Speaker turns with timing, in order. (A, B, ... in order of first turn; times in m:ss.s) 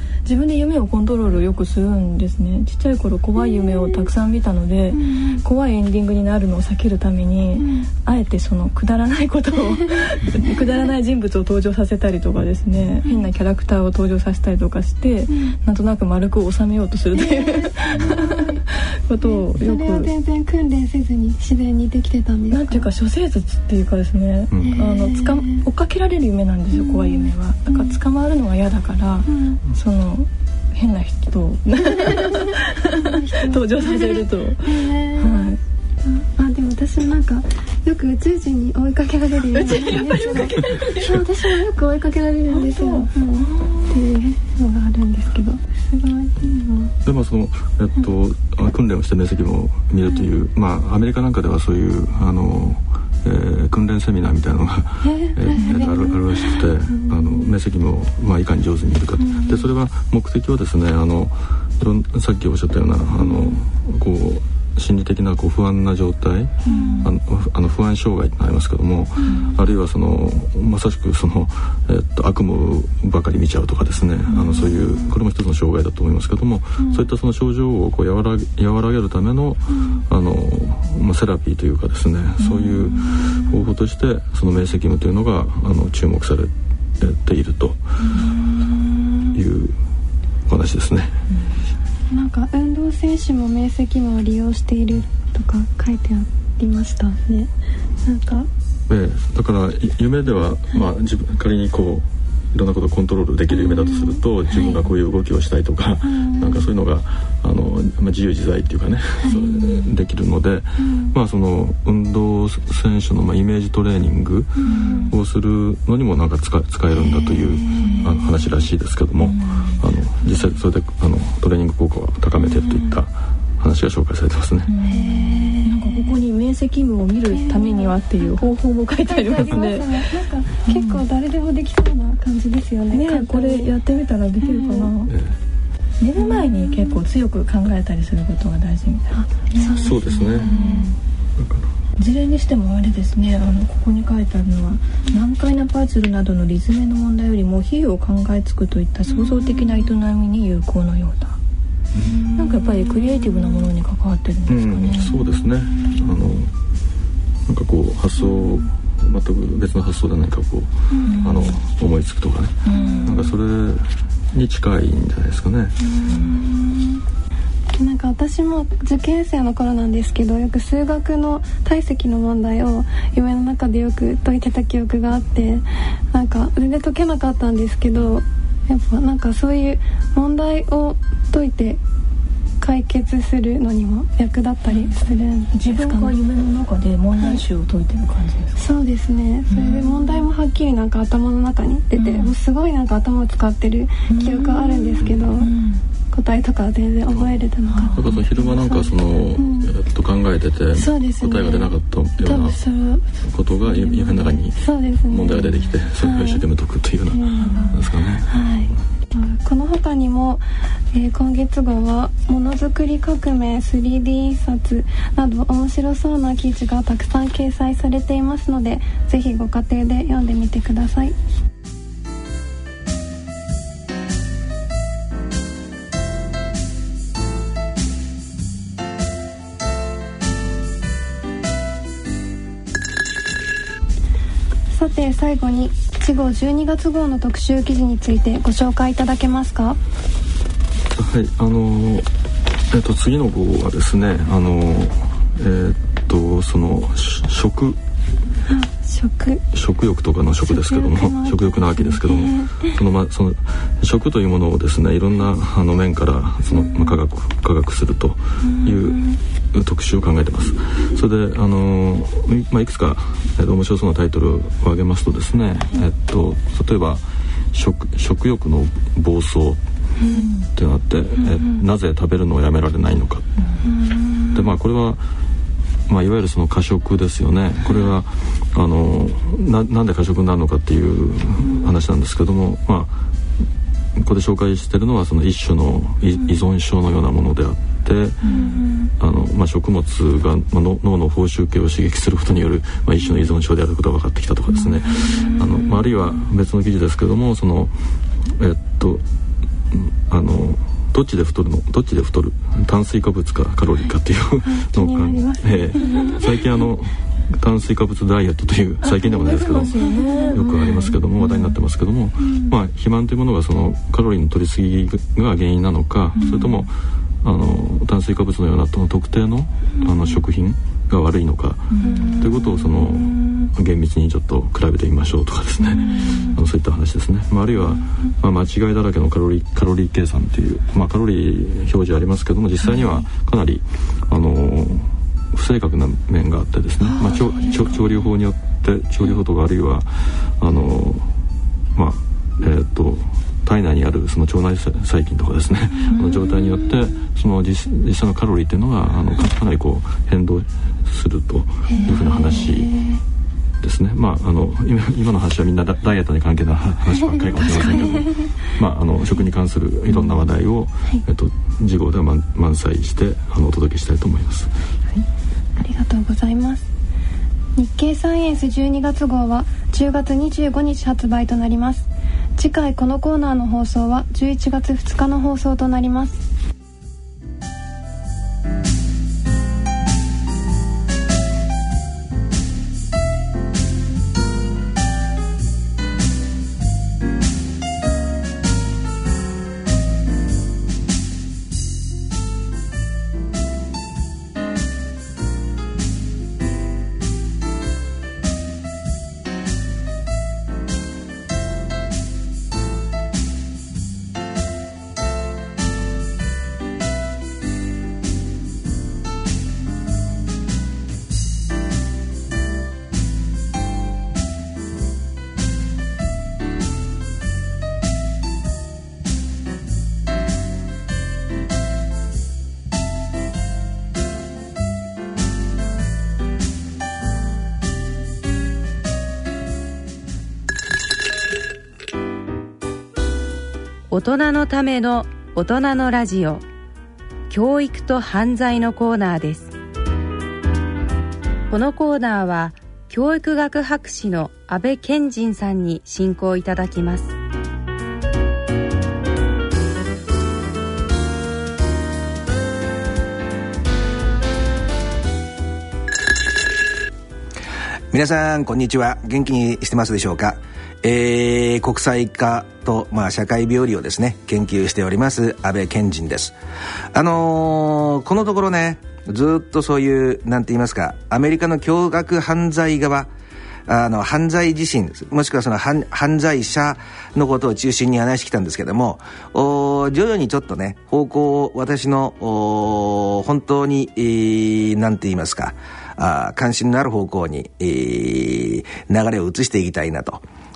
0:00.2-0:20.1 A
0:03.4-0:04.1 B
0:04.9-0:05.4 B
0:07.6-0:07.9 B
0:17.2-0:18.6 B
0:19.2-0:22.9 B
0:22.5-0:35.6 A
0:24.5-0:25.0 C
0:24.6-0:25.6 B
0:26.7-0:28.0 B
0:29.3-0:29.6 B
0:32.0-0:35.5 B
0:36.0-0:46.9 B
0:39.5-0:41.2 A
0:40.8-0:41.2 C
0:42.5-0:44.0 A
0:47.0-1:28.2 C
0:55.0-0:57.5 B
0:55.6-0:56.0 A
0:59.2-0:59.7 B
1:03.2-1:03.6 B
1:06.7-1:07.1 B
1:06.7-1:07.1 A
1:09.2-1:09.5 B
1:09.3-1:09.5 A
1:14.4-1:14.7 B
1:16.8-1:17.0 B
1:22.4-1:23.0 A
1:23.0-1:23.5 B
1:28.1-1:29.4 B
1:29.3-1:29.8 C
1:30.5-1:31.2 C
1:32.1-1:37.5 B
1:38.0-1:38.5 B
1:38.9-2:04.7 C
1:43.5-1:44.8 B
1:46.0-1:46.7 B
1:50.8-1:51.1 B
1:54.6-1:55.1 B
1:54.6-1:55.2 A
1:56.9-1:58.1 B
1:57.8-1:58.2 A
1:59.2-1:59.8 A
2:02.5-2:02.9 B
2:04.7-2:10.1 A
2:04.8-2:06.2 B
2:07.3-2:13.7 B
2:10.6-2:11.0 A
2:12.9-2:15.2 A
2:14.4-2:14.9 B
2:15.1-2:15.4 C
2:16.0-2:21.0 A
2:16.2-2:17.0 B
2:19.2-2:20.9 B
2:19.8-2:20.5 C
2:21.4-2:21.7 C
2:22.0-2:31.4 A
2:29.1-2:29.8 B
2:31.9-2:32.3 C
2:32.2-2:33.7 B
2:32.4-2:35.2 A
2:34.5-2:36.5 C
2:37.5-2:45.8 C
2:40.9-2:41.4 B
2:41.0-2:41.6 A
2:42.6-2:43.3 A
2:42.7-2:43.3 B
2:45.8-2:47.0 B
2:46.0-2:46.4 A
2:47.8-3:01.8 B
3:02.6-3:06.2 B
3:05.5-3:08.6 A
3:08.6-3:15.5 B
3:09.5-3:10.3 A
3:12.0-3:12.3 A
3:14.1-3:15.8 A
3:15.0-3:15.4 C
3:16.1-3:18.9 B
3:17.1-3:22.6 C
3:17.8-3:18.5 A
3:19.4-3:19.7 B
3:20.8-3:23.0 B
3:23.2-3:28.8 C
3:23.6-3:26.5 B
3:27.1-3:41.2 B
3:27.4-3:27.9 A
3:54.7-3:59.8 B
4:00.9-4:02.1 C
4:02.7-4:07.8 C
4:08.5-4:09.4 B
4:09.5-4:29.6 C
4:10.4-4:12.8 B
4:18.4-4:19.2 B
4:30.0-4:30.3 B
4:30.1-4:30.5 A
4:30.5-4:33.3 C
4:33.7-4:34.4 B
4:34.3-4:35.0 C
4:35.9-4:43.0 C
4:44.0-4:48.3 C
4:48.2-4:48.6 A
4:48.2-4:48.9 B
4:49.0-4:59.0 C
4:54.6-4:55.2 A
4:55.0-4:55.7 B
4:59.7-5:41.1 C
5:04.4-5:06.2 B
5:08.8-5:11.6 A
5:09.8-5:10.6 B
5:12.2-5:12.6 B
5:16.2-5:16.7 A
5:16.2-5:16.5 B
5:21.8-5:22.2 A
5:21.8-5:22.9 B
5:25.8-5:26.4 A
5:25.9-5:26.4 B
5:36.9-5:37.6 A
5:41.7-5:52.8 C
5:45.9-5:46.4 A
5:51.7-5:53.0 B
5:51.8-5:52.4 A
5:53.6-6:04.5 C
5:57.4-5:58.3 B
5:59.9-6:00.2 A
6:05.6-6:06.7 B
6:07.6-6:16.2 B
7:13.9-7:16.4 D
7:17.3-7:19.5 D
7:21.5-7:27.1 D
7:37.9-7:46.4 E
7:46.9-7:53.1 E
7:53.7-8:10.2 E